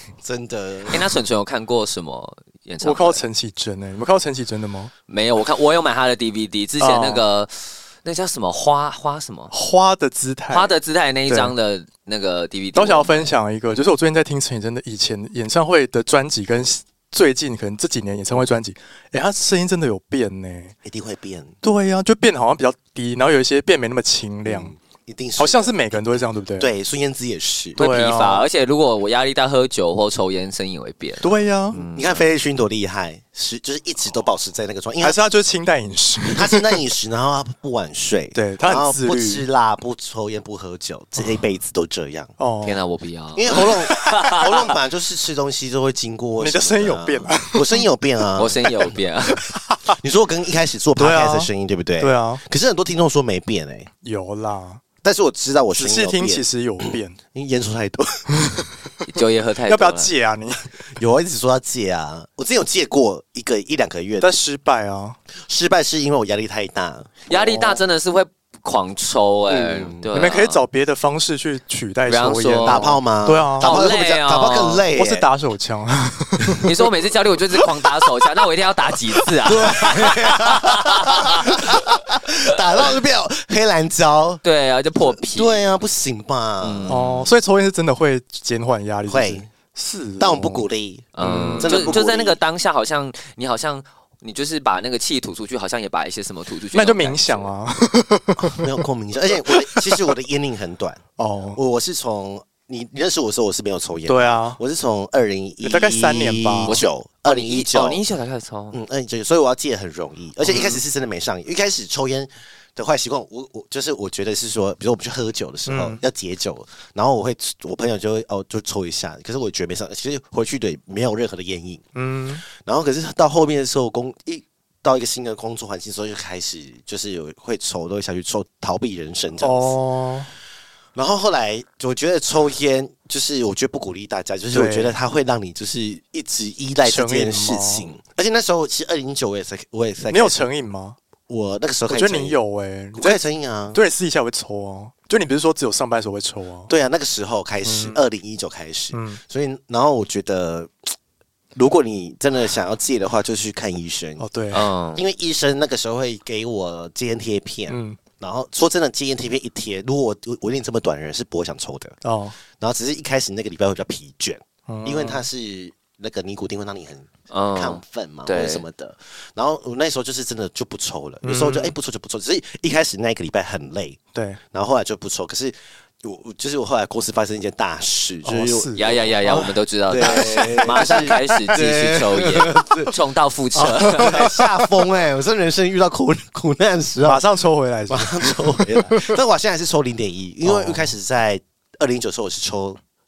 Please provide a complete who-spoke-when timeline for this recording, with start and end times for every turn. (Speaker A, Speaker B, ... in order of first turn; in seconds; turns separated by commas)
Speaker A: 0.2-1.0, Speaker B: 0.9-3.2, Speaker C: 2.8-4.9, Speaker B: 5.1-9.5, Speaker C: 6.8-7.2, Speaker C: 9.5-10.7, Speaker B: 10.5-13.3, Speaker C: 11.3-11.5, Speaker C: 12.7-20.7, Speaker A: 20.8-21.6, Speaker C: 21.6-24.7, Speaker A: 24.4-27.8, Speaker C: 25.4-26.7, Speaker C: 27.8-28.4, Speaker B: 27.8-32.2, Speaker C: 31.2-31.8, Speaker A: 31.8-35.2, Speaker C: 35.0-36.8, Speaker A: 36.2-42.3, Speaker C: 38.3-39.4, Speaker C: 42.4-42.8, Speaker B: 42.6-44.7, Speaker A: 43.3-48.6, Speaker C: 46.4-47.9, Speaker B: 48.4-49.4, Speaker A: 49.9-53.9, Speaker C: 51.0-52.4, Speaker C: 54.0-54.8, Speaker A: 55.0-58.3, Speaker C: 55.8-57.2, Speaker C: 58.4-58.7, Speaker B: 59.0-60.1, Speaker C: 59.7-60.7, Speaker A: 61.0-64.3, Speaker C: 64.2-65.2, Speaker A: 65.5-67.2, Speaker B: 67.3-70.6, Speaker C: 67.3-67.8, Speaker A: 69.5-70.1, Speaker C: 70.1-73.7, Speaker B: 72.1-73.0, Speaker A: 72.6-75.2, Speaker B: 73.6-74.8, Speaker C: 74.9-76.7, Speaker B: 76.6-82.6, Speaker A: 79.4-84.4, Speaker B: 84.4-85.7, Speaker A: 85.0-87.0, Speaker B: 86.6-87.3, Speaker C: 86.9-90.7, Speaker A: 89.1-89.5, Speaker A: 90.2-92.4, Speaker B: 91.1-97.5, Speaker C: 91.2-91.9, Speaker C: 96.7-98.8, Speaker A: 98.4-101.0, Speaker C: 99.5-100.0, Speaker C: 101.2-101.6, Speaker A: 101.5-108.0, Speaker C: 104.1-104.6, Speaker C: 105.6-106.8, Speaker B: 106.6-108.8, Speaker A: 108.7-121.8, Speaker C: 110.5-110.8, Speaker C: 115.7-116.0, Speaker C: 121.9-122.4, Speaker A: 122.5-129.8, Speaker C: 129.4-130.3, Speaker A: 130.9-140.4, Speaker C: 134.5-134.9, Speaker C: 136.8-137.9, Speaker C: 140.1-141.0, Speaker A: 141.3-142.4, Speaker C: 141.9-143.2, Speaker A: 142.9-143.8, Speaker C: 143.7-146.7, Speaker A: 146.7-150.7, Speaker C: 147.6-148.0, Speaker C: 148.9-149.2, Speaker A: 151.6-154.2, Speaker C: 154.2-154.7, Speaker B: 154.5-155.0, Speaker A: 154.9-162.0, Speaker C: 157.7-158.0, Speaker C: 162.0-162.3, Speaker A: 162.6-174.0, Speaker C: 164.7-165.2, Speaker B: 167.3-168.6, Speaker C: 171.2-171.7, Speaker C: 174.1-174.4, Speaker A: 174.5-179.1, Speaker C: 178.2-181.2, Speaker B: 178.8-184.3, Speaker A: 179.9-182.9, Speaker A: 183.6-187.2, Speaker C: 183.9-184.4, Speaker C: 187.0-189.2, Speaker A: 187.9-192.8, Speaker C: 190.4-190.9